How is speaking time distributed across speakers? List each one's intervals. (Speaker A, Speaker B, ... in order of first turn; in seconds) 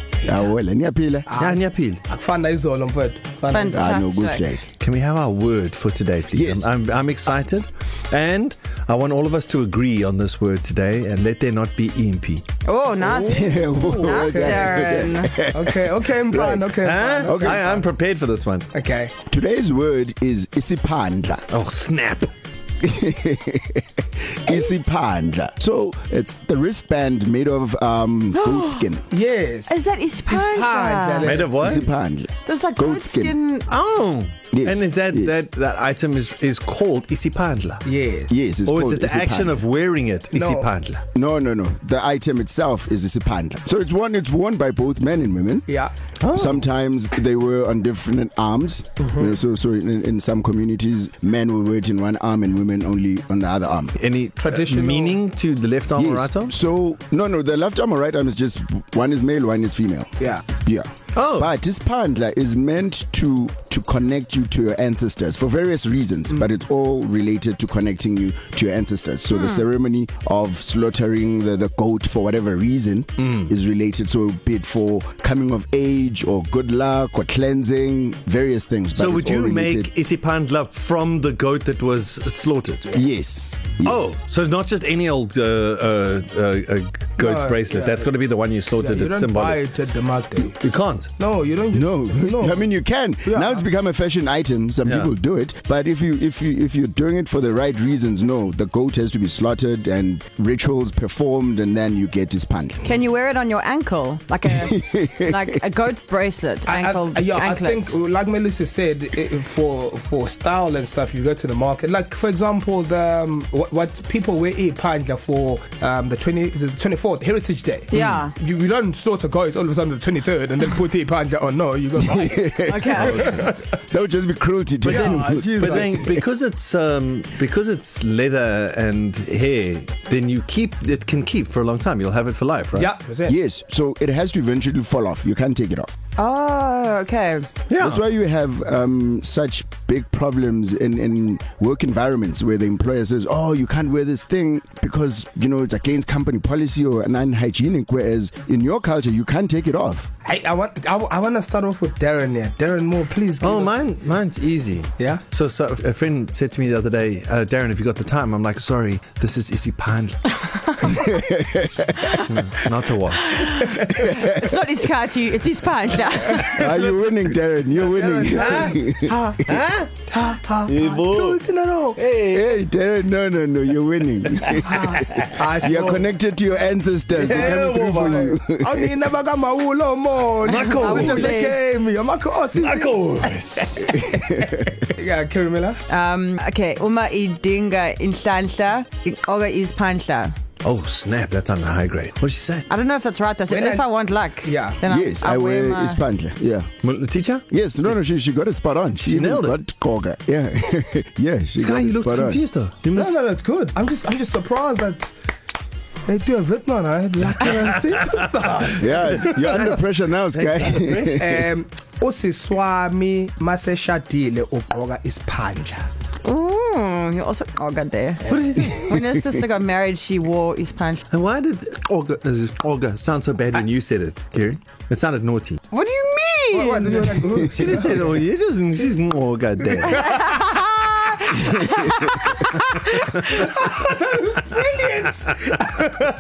Speaker A: 0.2-0.5, 1.3-4.0, 13.0-14.8, 15.5-17.9, 18.7-19.1, 29.1-31.9, 37.9-38.4, 40.3-40.7, 45.7-45.9, 49.0-49.4, 54.4-55.2, 87.2-88.1, 88.8-90.6, 91.2-92.7, 93.2-93.7, 106.7-123.6, 124.8-126.0, 132.8-133.4, 150.2-153.8, 155.0-155.2, 163.6-164.0, 166.3-167.0, 167.8-169.5, 170.1-172.0, 174.7-176.1, 177.1-183.3, 183.9-185.8, 193.5-193.9, 194.4-194.8, 202.9-205.1, 206.1-209.7, 211.2-215.9, 226.5-228.3, 233.4-236.1
Speaker B: 0.2-1.3, 3.7-4.7, 6.3-6.7, 13.2-16.7, 17.2-17.6, 19.3-21.5, 22.8-29.1, 31.6-33.4, 34.5-35.4, 38.3-39.6, 41.1-45.7, 46.3-54.0, 56.0-79.9, 82.9-84.0, 91.7-102.8, 104.5-105.5, 122.0-126.2, 133.3-135.9, 137.8-150.1, 160.8-161.9, 164.0-164.4, 166.4-169.3, 172.3-175.0, 175.6-178.9, 183.8-184.7, 194.9-196.7, 197.5-202.4, 208.8-211.4, 231.4-232.3
Speaker C: 1.4-2.0, 4.8-12.4, 16.8-18.7, 21.5-22.3, 31.2-31.9, 33.7-37.9, 38.6-41.0, 46.2-46.6, 54.0-56.5, 61.1-61.5, 73.2-73.5, 79.0-82.9, 83.8-89.7, 90.6-91.1, 94.8-95.1, 117.9-118.2, 123.0-123.5, 124.8-132.9, 137.7-138.0, 153.4-160.4, 161.7-163.7, 168.2-170.0, 170.7-171.4, 171.9-172.6, 174.5-175.4, 177.2-178.4, 180.4-181.6, 182.5-183.9, 190.6-192.7, 196.8-197.4, 199.0-199.6, 201.6-203.2, 207.5-208.2, 208.8-211.4, 218.3-219.0, 221.1-225.6, 227.4-230.6
Speaker D: 3.5-4.5, 12.7-15.4, 28.4-28.8, 29.7-31.4, 32.5-33.7, 69.3-69.7, 102.8-107.9, 117.9-118.3, 122.6-123.3, 136.2-137.5, 163.4-166.6, 180.5-181.7, 185.9-190.3, 192.7-196.0, 216.2-221.1, 225.7-227.4, 229.9-233.6